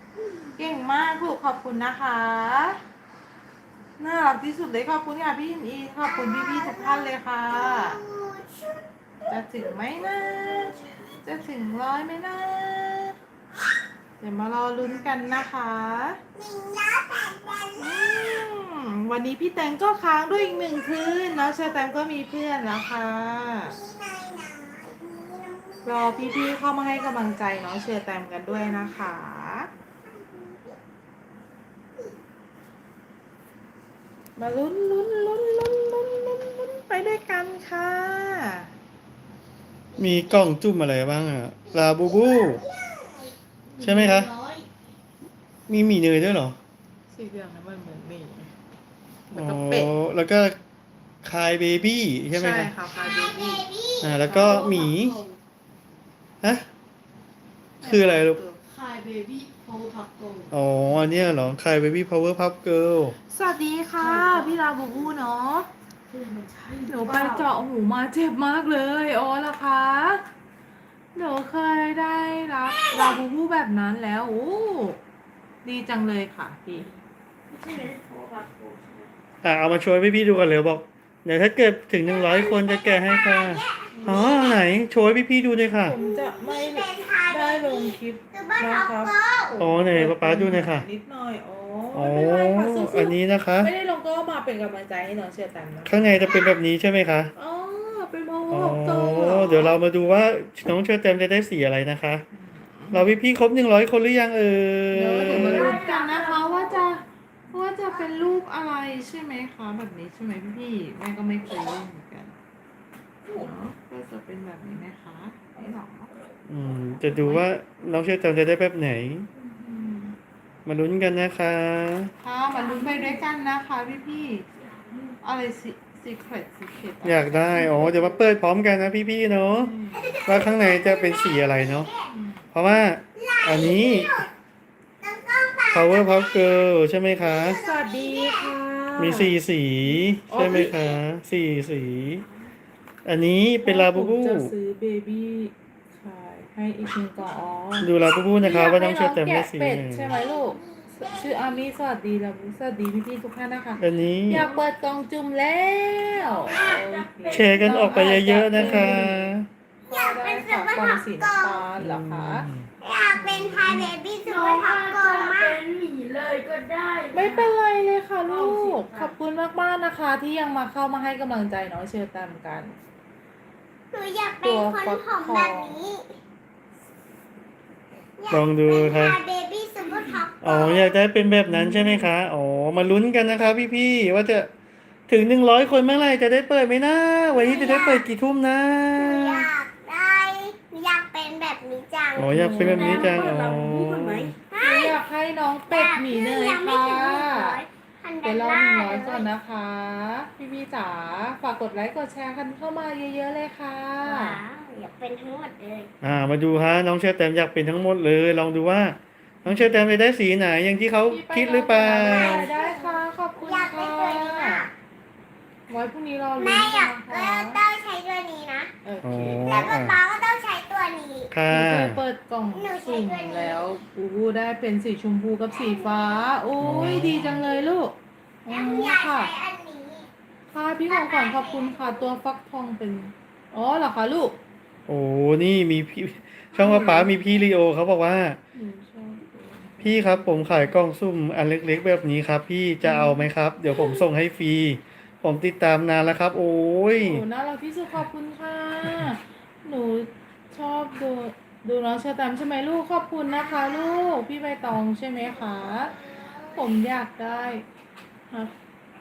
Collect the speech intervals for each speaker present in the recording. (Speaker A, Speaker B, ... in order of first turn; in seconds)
Speaker A: 0.6-2.8, 4.0-8.0, 9.3-13.1, 14.2-16.2, 17.8-23.8, 25.8-29.7, 34.4-38.7, 47.1-48.5, 49.3-49.9, 52.3-53.6, 54.3-54.6, 57.8-58.6, 63.3-65.7, 66.9-70.2, 71.1-75.0, 75.6-76.9, 83.9-84.5, 85.8-96.2, 97.3-99.7, 102.3-103.1, 104.9-112.4, 113.4-116.1, 117.1-117.4, 119.5-120.2, 122.2-124.4, 125.2-128.2, 129.6-130.1, 132.1-132.5, 137.5-139.4, 140.2-140.7, 143.6-159.3, 159.9-162.5, 163.1-163.9, 167.1-172.8, 174.4-175.8, 181.5-182.1, 192.3-193.3, 194.6-197.6, 198.2-204.4, 209.4-209.9, 211.1-214.7, 215.7-217.6, 218.8-219.7, 221.5-229.3, 230.5-234.4, 236.5-237.1, 238.5-240.2, 242.8-243.3, 246.9-255.9, 256.5-257.6
Speaker B: 6.0-9.4, 10.0-11.1, 16.3-18.4, 23.7-26.5, 30.0-30.7, 40.0-40.5, 41.7-44.6, 53.0-54.1, 72.7-73.2, 82.0-84.6, 85.9-89.6, 96.2-96.6, 129.9-132.1, 133.2-134.3, 135.0-138.6, 140.4-141.0, 150.1-151.6, 159.9-161.6, 162.8-165.6, 173.9-176.2, 178.2-181.0, 187.3-188.1, 189.0-192.6, 194.5-195.0, 195.7-199.3, 204.0-205.9, 211.9-214.7, 216.4-218.7, 219.4-221.3, 222.5-223.8, 225.5-226.4, 228.5-230.1, 230.9-232.1, 253.3-254.2, 255.2-256.7
Speaker C: 40.0-42.6, 43.8-44.3, 45.7-46.6, 49.3-50.6, 51.2-52.7, 54.0-55.2, 57.8-58.4, 60.5-63.1, 79.4-86.0, 89.6-90.8, 91.9-93.7, 95.8-97.3, 98.5-102.2, 102.9-105.8, 116.5-119.3, 120.7-122.1, 127.0-129.7, 130.2-131.9, 132.5-134.2, 135.7-137.6, 139.0-142.2, 143.0-144.5, 147.8-150.1, 153.8-154.5, 157.3-159.5, 161.8-162.7, 178.3-179.2, 180.4-184.5, 185.1-189.5, 192.2-194.3, 206.0-212.5, 219.0-220.0, 221.3-222.0, 226.6-227.4, 234.9-238.4, 239.8-247.2
Speaker D: 54.3-55.4, 58.7-60.5, 64.0-64.6, 66.1-67.5, 77.5-79.1, 105.2-106.9, 113.2-113.5, 122.6-123.2, 124.6-125.2, 154.3-154.7, 156.1-159.0, 164.2-167.5, 168.2-169.1, 179.8-180.2, 192.6-194.3